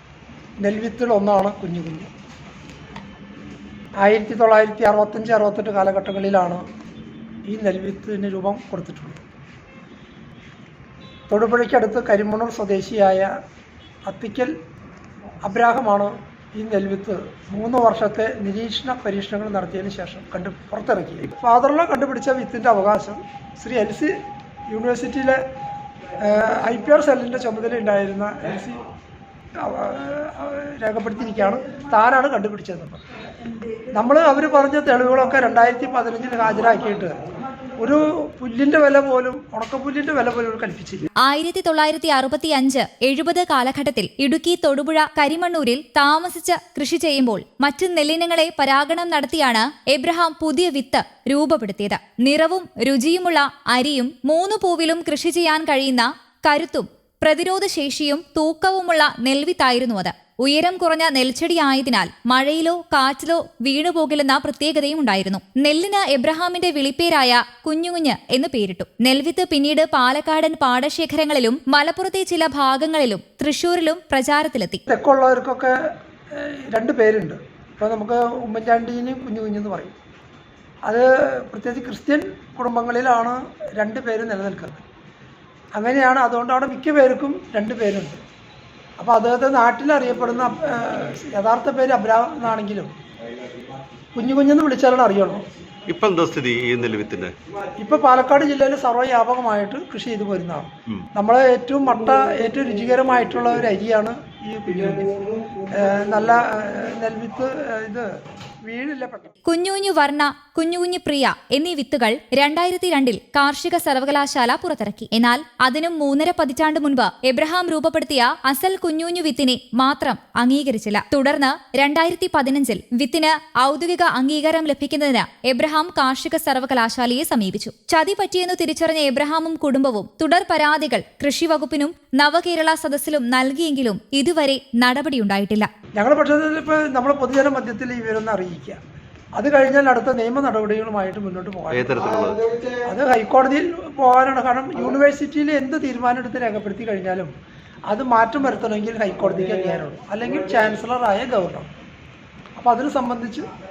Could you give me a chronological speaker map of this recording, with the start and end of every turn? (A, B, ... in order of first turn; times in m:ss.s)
0:00.6-0:02.1 A
0:04.0-0:06.6 A
0:07.5-0:09.2 A
0:11.3-0:13.3 A
0:14.0-0:14.5 A
0:15.4-0:24.2 A
0:24.7-0:25.4 A
0:26.2-0:28.8 A
0:29.6-0:33.0 A
0:33.9-0:37.2 A
0:37.7-0:41.1 A
0:41.2-1:14.8 B
1:14.9-1:15.8 A
1:16.3-1:19.9 A
1:20.9-1:24.8 A
1:25.7-1:28.2 A
1:29.0-1:32.9 A
1:34.1-1:35.4 A
1:35.9-1:37.3 C
1:37.8-1:48.1 A
1:48.6-1:49.3 A
1:49.4-2:15.7 B
2:16.0-2:18.8 A
2:19.4-2:22.0 A
2:21.7-2:22.5 C
2:22.8-2:27.3 A
2:27.9-2:31.7 A
2:32.6-2:33.5 A